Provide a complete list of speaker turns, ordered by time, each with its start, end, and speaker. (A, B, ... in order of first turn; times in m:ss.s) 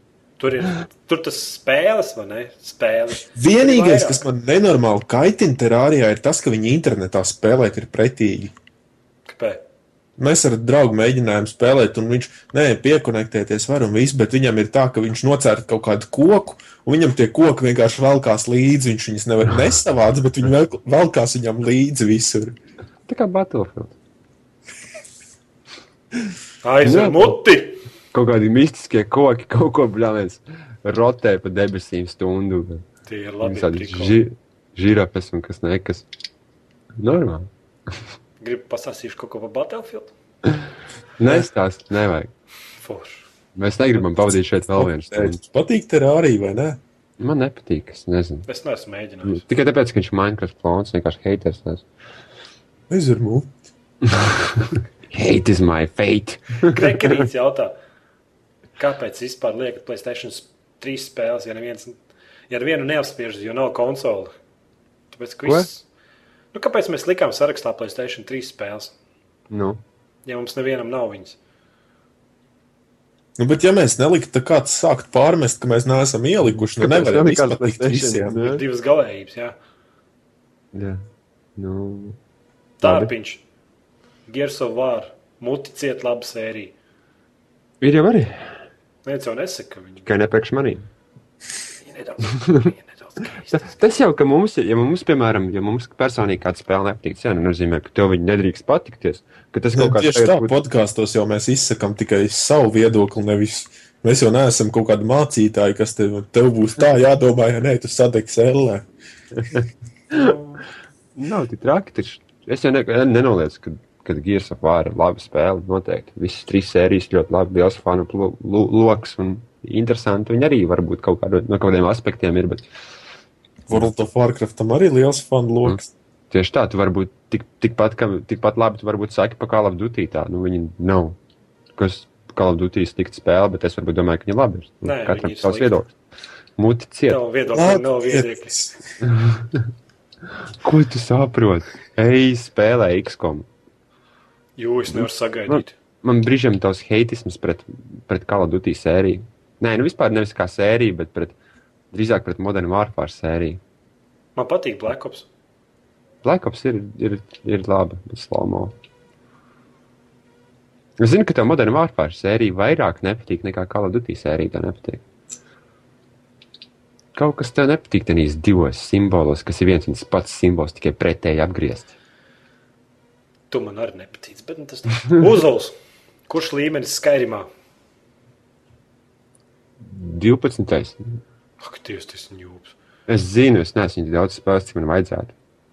0:00.4-0:04.2 A
0:03.4-0:08.5 B
0:09.3-0:09.6 A
0:10.2-0:22.6 B
0:23.1-0:24.0 C
0:26.6-0:27.8 A
0:26.8-0:27.4 C
0:28.1-0:32.8 C
0:33.1-0:34.2 A
0:33.4-0:36.1 C
0:37.0-0:37.5 C
0:38.4-0:40.1 A
0:41.2-0:42.3 C
0:42.8-0:43.2 A
0:43.6-0:45.4 C
0:44.8-0:46.8 B
0:47.2-0:48.5 C
0:48.5-0:49.4 A
0:49.2-0:51.8 C
0:52.9-0:53.5 B
0:54.1-0:57.2 C
0:56.7-0:57.7 A
0:58.8-1:02.0 A
1:02.5-1:04.3 A
1:05.1-1:05.9 A
1:06.5-1:08.9 A
1:09.5-1:09.8 C
1:10.2-1:11.4 A
1:13.4-1:18.4 B
1:16.6-1:18.6 C
1:18.4-1:19.6 A
1:20.7-1:21.0 C
1:21.6-1:22.2 C
1:22.8-1:23.4 A
1:22.8-1:23.1 C
1:24.3-1:26.8 A
1:27.8-1:28.6 C
1:29.0-1:30.1 A
1:30.1-1:30.9 C
1:31.8-1:33.6 A
1:33.4-1:40.6 C
1:39.7-1:48.9 B
1:49.4-1:50.4 C
1:50.1-1:50.6 A
1:51.2-2:02.7 C
2:03.7-2:05.9 B
2:06.3-2:11.2 C
2:11.8-2:15.9 C
2:14.8-2:15.8 A
2:16.6-2:17.2 C
2:17.1-2:18.6 A
2:17.5-2:18.8 B
2:19.0-2:19.7 C
2:20.6-2:23.5 C
2:24.6-2:25.8 A
2:24.9-2:31.4 C
2:31.9-2:33.6 C
2:34.4-2:35.3 A
2:36.2-2:38.8 C
2:41.0-2:45.0 C
2:47.2-2:51.9 C
2:53.5-2:55.8 A
2:56.3-2:57.5 A
2:59.8-3:01.2 C
3:01.6-3:02.7 A
3:03.1-3:05.4 C